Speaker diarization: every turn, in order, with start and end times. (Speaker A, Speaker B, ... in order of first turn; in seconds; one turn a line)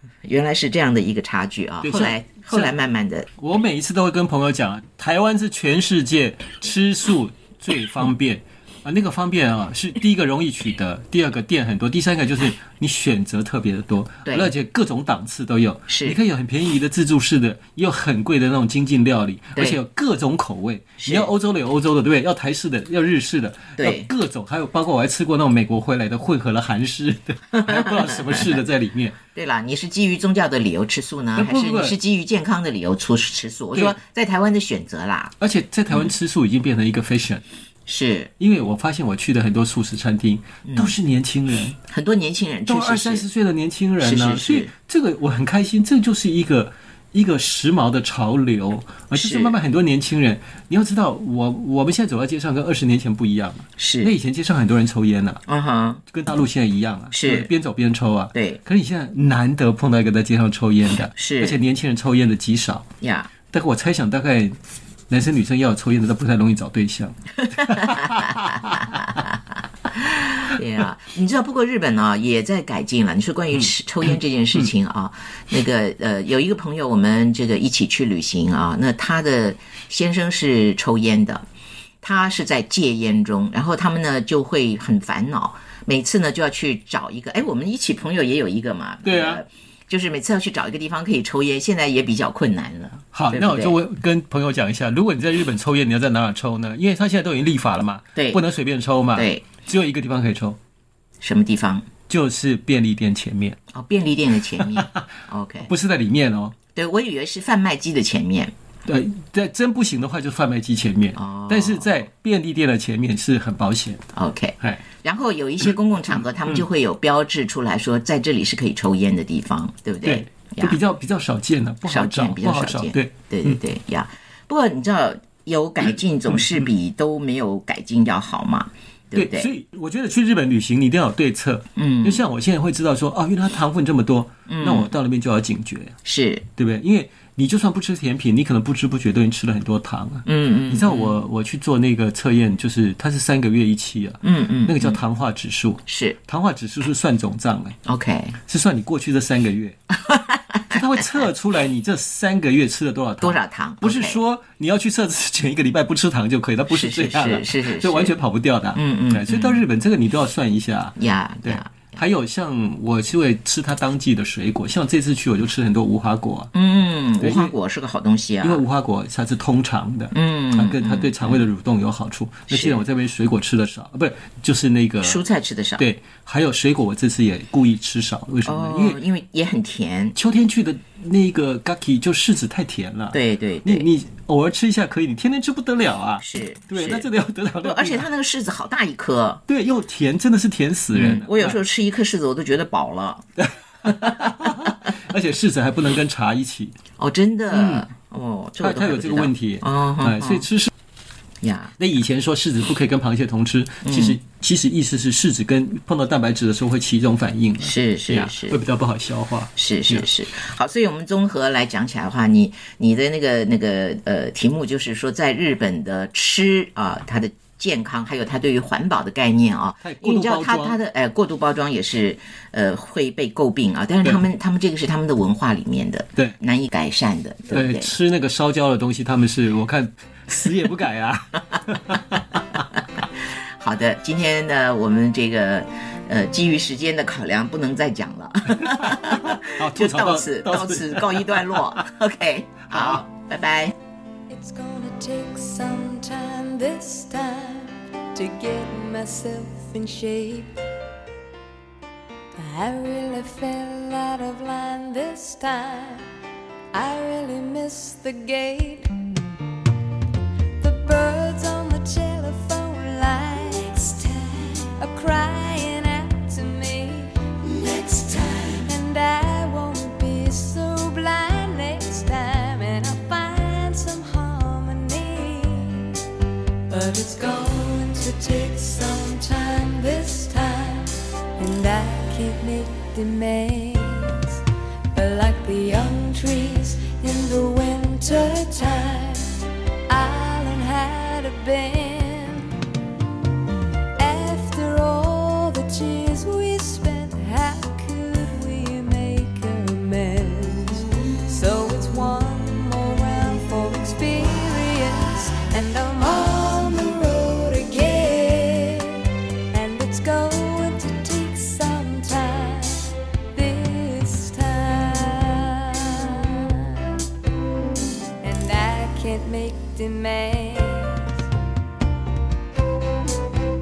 Speaker A: 0.2-3.3
Speaker B: 1.8-2.7
Speaker B: 3.4-29.1
Speaker A: 14.3-14.5
Speaker A: 15.9-16.2
Speaker A: 21.0-21.3
Speaker A: 23.8-24.1
Speaker A: 27.5-28.6
Speaker A: 29.3-35.3
Speaker B: 31.4-32.0
Speaker B: 35.4-37.4
Speaker A: 37.9-38.3
Speaker B: 38.4-41.8
Speaker A: 40.7-40.9
Speaker A: 41.9-43.2
Speaker B: 42.6-55.4
Speaker A: 44.0-44.7
Speaker A: 49.1-49.6
Speaker A: 53.8-54.1
Speaker A: 55.5-56.0
Speaker B: 56.1-62.9
Speaker A: 57.1-57.5
Speaker A: 58.3-58.6
Speaker A: 61.1-61.6
Speaker A: 63.0-63.3
Speaker B: 63.5-64.6
Speaker B: 65.1-69.1
Speaker A: 67.8-68.3
Speaker A: 68.9-69.4
Speaker A: 69.9-81.5
Speaker A: 82.0-93.8
Speaker B: 89.0-89.4
Speaker B: 93.1-100.6
Speaker A: 98.1-98.4
Speaker A: 99.1-99.4
Speaker A: 101.2-101.8
Speaker B: 102.1-103.6
Speaker A: 103.7-105.7
Speaker B: 104.6-105.0
Speaker B: 105.6-106.5
Speaker A: 106.7-108.5
Speaker B: 108.8-114.1
Speaker A: 111.1-112.0
Speaker A: 114.1-120.8
Speaker B: 120.0-123.6
Speaker A: 121.9-129.5
Speaker B: 129.1-135.9
Speaker A: 131.8-132.3
Speaker A: 134.5-134.9
Speaker A: 136.0-136.4
Speaker B: 136.6-147.8
Speaker A: 140.2-141.2
Speaker A: 144.2-145.0
Speaker A: 145.8-146.2
Speaker A: 147.8-148.4
Speaker B: 148.5-149.8
Speaker A: 150.1-150.6
Speaker B: 150.7-166.5
Speaker A: 153.2-154.2
Speaker A: 156.7-158.1
Speaker A: 158.7-159.6
Speaker A: 160.9-162.0
Speaker A: 166.5-168.6
Speaker B: 167.2-167.5
Speaker B: 168.4-175.2
Speaker A: 170.1-171.4
Speaker A: 172.5-172.8
Speaker A: 175.0-175.8
Speaker B: 175.8-179.0
Speaker A: 178.4-180.2
Speaker B: 180.2-188.1
Speaker A: 183.1-183.9
Speaker A: 186.2-187.1
Speaker A: 187.6-189.4
Speaker B: 189.5-191.6
Speaker A: 190.9-193.2
Speaker B: 193.4-196.7
Speaker A: 193.8-194.7
Speaker A: 197.0-200.4
Speaker B: 197.5-197.9
Speaker B: 198.6-200.7
Speaker A: 201.4-201.7
Speaker B: 201.8-210.1
Speaker A: 203.8-204.2
Speaker A: 207.6-208.6
Speaker A: 209.6-227.9
Speaker B: 219.8-220.8
Speaker B: 227.5-232.6
Speaker A: 233.6-243.7
Speaker B: 238.6-241.7
Speaker B: 242.7-243.0
Speaker C: 244.3-250.6
Speaker C: 252.3-256.1
Speaker C: 256.7-259.2
Speaker C: 260.6-276.1
Speaker C: 276.7-289.4
Speaker C: 289.9-292.6
Speaker C: 293.9-317.0
Speaker C: 318.2-321.2